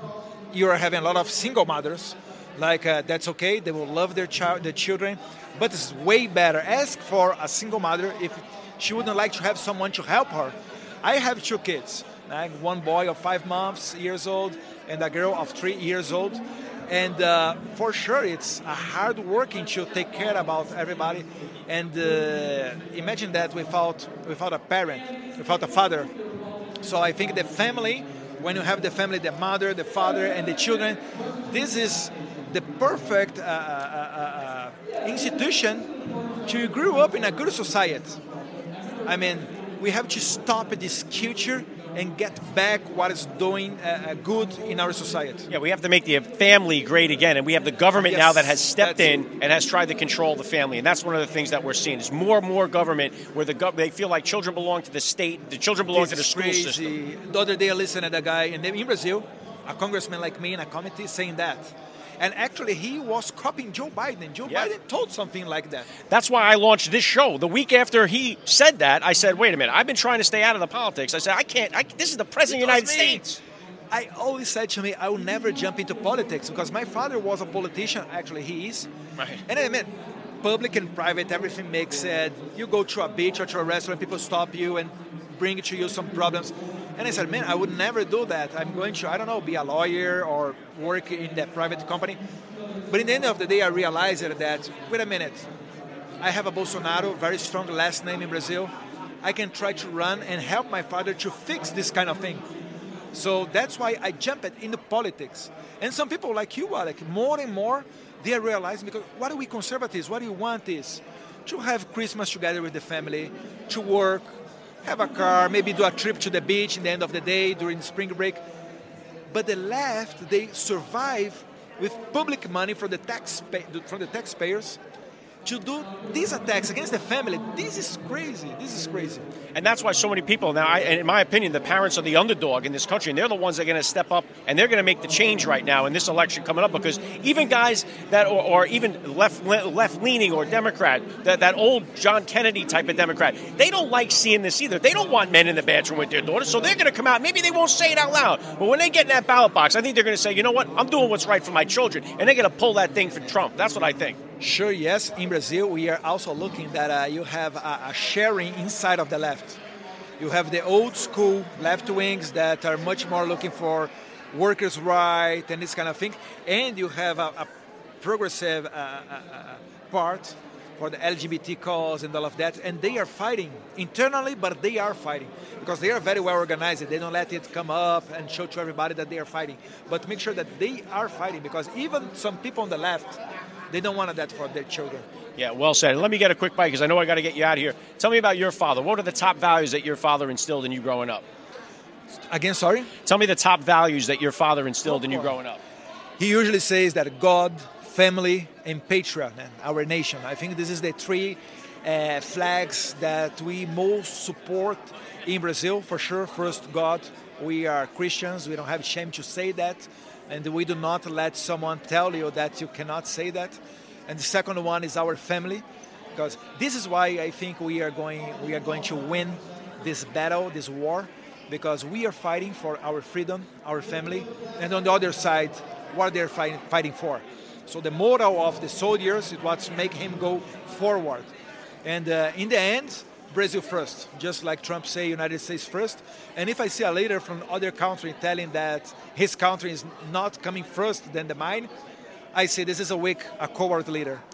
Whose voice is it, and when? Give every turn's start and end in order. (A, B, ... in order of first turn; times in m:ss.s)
0:00.5-0:26.1 A
0:26.8-0:35.9 A
0:36.5-0:38.2 A
0:39.0-0:45.5 A
0:45.5-0:57.0 B
0:47.9-0:49.2 A
0:55.9-1:05.9 A
1:06.1-1:13.4 B
1:12.5-1:13.3 A
1:13.9-1:18.9 A
1:19.5-1:32.2 A
1:32.9-1:35.5 A
1:36.2-1:42.4 A
1:43.1-1:58.4 A
1:59.3-2:04.8 A
2:05.4-2:09.3 A
2:09.6-2:34.2 B
2:34.4-2:39.6 A
2:40.2-2:47.5 A
2:48.0-3:03.2 A
3:03.7-3:05.1 A
3:05.4-3:11.2 B
3:12.3-3:12.9 A
3:13.0-3:15.6 B
3:14.9-3:15.3 A
3:16.2-3:51.3 A
3:51.8-4:01.7 A
4:02.3-4:04.2 A